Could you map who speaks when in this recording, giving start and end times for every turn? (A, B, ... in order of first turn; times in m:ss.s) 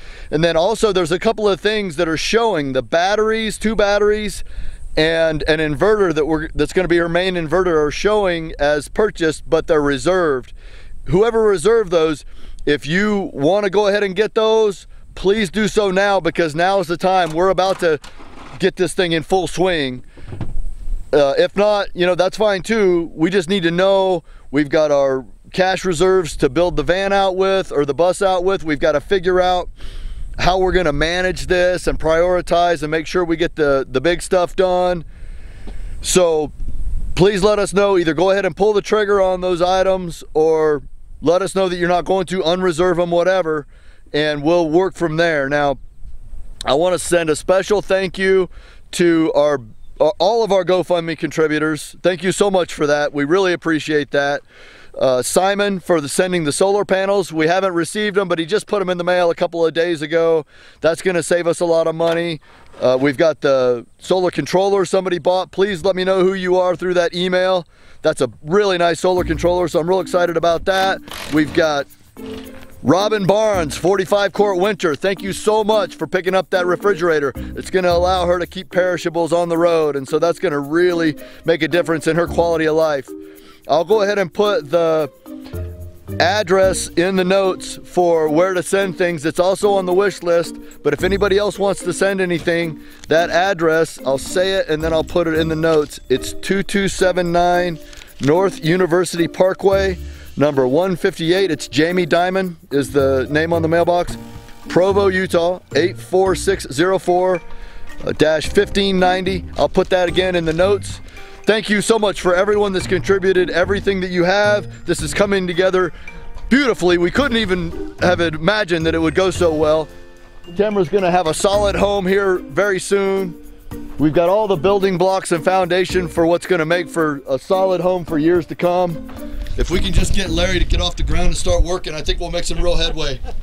0:00.3-0:04.4 A
0:05.0-0:10.5 A
0:11.0-0:18.0 A
0:18.6-0:20.0 A
0:21.1-0:29.7 A
0:30.4-0:35.0 A
0:36.0-0:36.5 A
0:37.1-0:45.8 A
0:46.7-0:54.4 A
0:55.0-1:11.9 A
1:12.8-1:23.1 A
1:23.7-1:25.1 A
1:26.2-1:47.4 A
1:48.0-1:55.9 A
1:56.5-1:59.9 A
2:00.5-2:03.4 A
2:04.0-2:09.0 A
2:09.6-2:13.2 A